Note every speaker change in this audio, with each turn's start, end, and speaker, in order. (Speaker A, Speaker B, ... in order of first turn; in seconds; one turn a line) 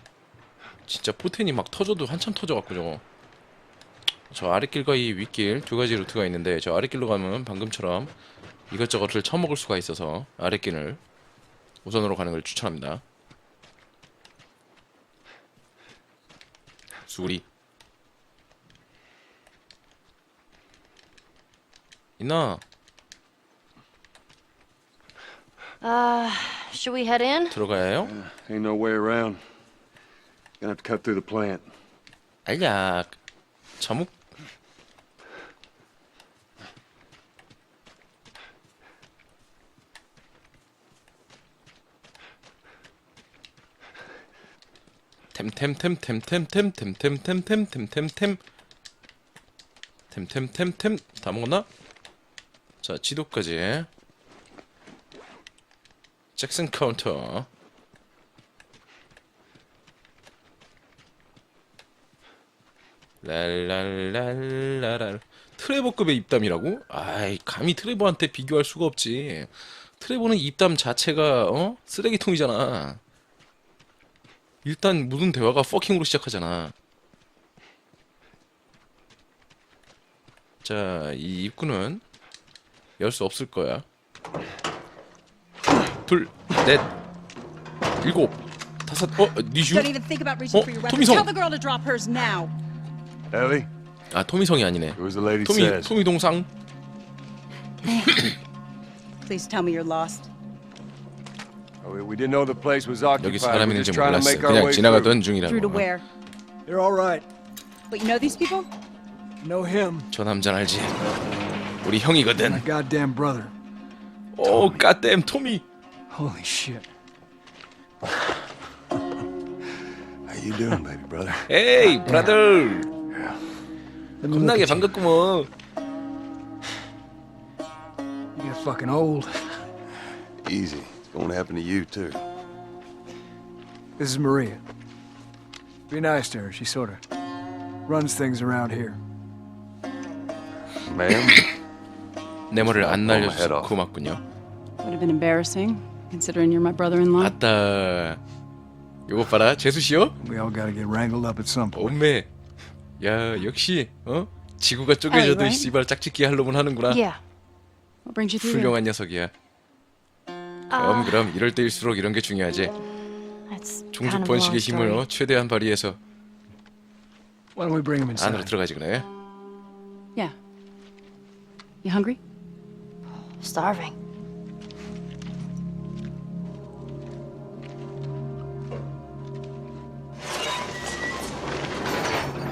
Speaker A: 0.9-3.0
Speaker A: 4.3-8.1
Speaker A: 8.7-11.0
Speaker A: 11.8-13.0
Speaker A: 17.1-17.4
Speaker A: 22.2-22.6
Speaker B: 25.8-27.6
Speaker A: 27.5-28.1
Speaker C: 28.0-29.4
Speaker C: 30.6-31.7
Speaker A: 32.5-33.2
Speaker A: 33.8-34.1
Speaker A: 45.3-48.4
Speaker A: 50.1-51.7
Speaker A: 52.8-53.9
Speaker A: 56.4-57.5
Speaker A: 63.2-73.0
Speaker A: 74.7-76.7
Speaker A: 80.6-82.0
Speaker A: 83.0-83.8
Speaker A: 86.0-86.9
Speaker A: 88.0-90.0
Speaker D: 89.7-92.5
Speaker A: 90.5-91.3
Speaker C: 93.3-93.7
Speaker A: 94.1-96.5
Speaker C: 95.0-95.9
Speaker D: 97.8-98.3
Speaker D: 99.2-100.3
Speaker C: 101.8-105.2
Speaker A: 103.2-105.9
Speaker D: 105.4-106.0
Speaker E: 106.7-107.3
Speaker D: 107.9-108.7
Speaker E: 109.4-110.1
Speaker A: 110.1-111.1
Speaker A: 111.8-112.7
Speaker E: 112.5-113.5
Speaker A: 114.3-115.6
Speaker C: 114.4-114.9
Speaker E: 116.1-116.9
Speaker C: 120.3-121.5
Speaker A: 121.5-122.9
Speaker E: 121.9-122.3
Speaker C: 123.1-123.4
Speaker E: 124.2-125.0
Speaker A: 124.3-125.5
Speaker E: 128.3-129.6
Speaker C: 130.4-132.2
Speaker E: 134.0-134.6
Speaker E: 135.9-137.0
Speaker E: 137.9-139.0
Speaker C: 140.8-141.5
Speaker A: 142.5-144.2
Speaker C: 142.5-143.7
Speaker D: 144.8-147.4
Speaker A: 147.2-148.2
Speaker A: 149.1-150.2
Speaker E: 150.2-152.0
Speaker A: 151.8-152.3
Speaker A: 153.0-157.0
Speaker D: 155.1-155.7
Speaker B: 156.9-157.2
Speaker D: 158.1-158.8
Speaker A: 158.4-159.3
Speaker B: 160.7-161.3
Speaker A: 160.8-162.7
Speaker B: 163.5-165.0
Speaker A: 163.9-166.0
Speaker E: 167.6-168.5
Speaker A: 168.2-169.1
Speaker D: 171.8-172.2
Speaker B: 173.2-173.9